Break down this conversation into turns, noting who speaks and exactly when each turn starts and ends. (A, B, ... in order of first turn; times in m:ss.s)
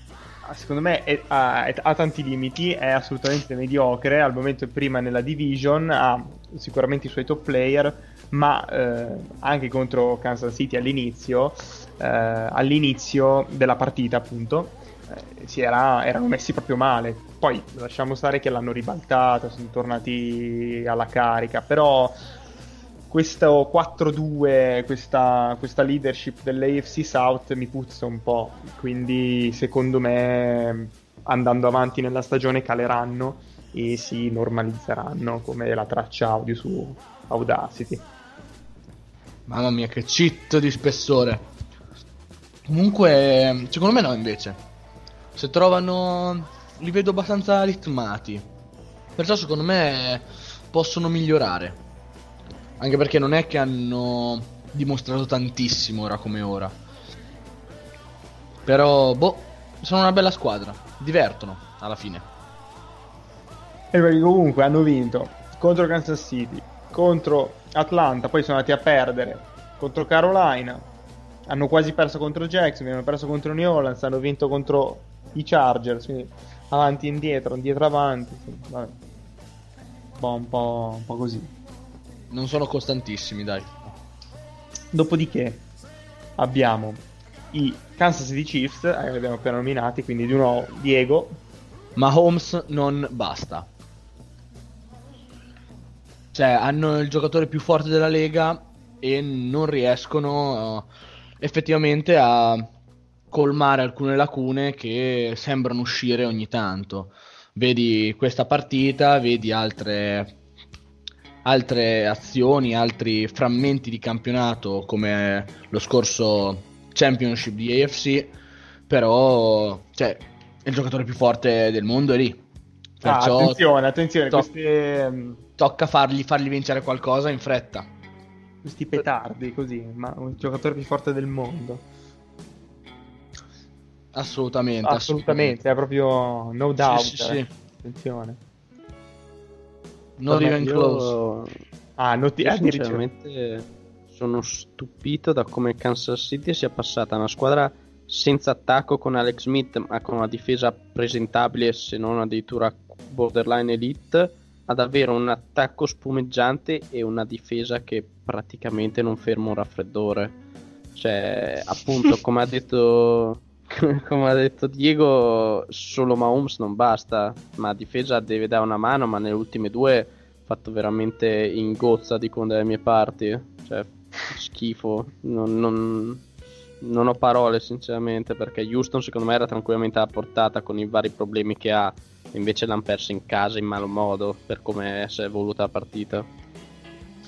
0:00.4-0:22.2 A
0:23.1-0:38.0 A
0:39.5-0:41.5 B
0:42.7-0:44.6 B
0:45.4-0:48.4 B
0:49.2-0:51.8 B
0:52.8-0:56.8 B
0:58.7-1:02.3 B
1:03.9-1:10.9 A
1:11.5-1:19.0 A
1:20.2-1:21.5 A
1:22.3-1:24.0 B
1:24.9-1:25.6 A
1:26.4-1:31.4 A
1:32.0-1:33.7 B
1:36.3-1:40.9 B
1:41.4-1:42.7 B
1:43.3-1:50.4 B
1:51.4-1:58.3 B
1:58.9-2:02.4 B
2:03.0-2:03.6 B
2:03.0-2:05.4 A
2:05.6-2:07.9 B
2:08.6-2:11.8 A
2:14.1-2:15.6 B
2:14.8-2:18.4 A
2:16.8-2:17.5 B
2:20.2-2:21.1 B
2:20.3-2:21.6 C
2:22.0-2:23.0 A
2:22.4-2:40.4 C
2:41.0-2:56.2 C
2:56.8-3:06.3 C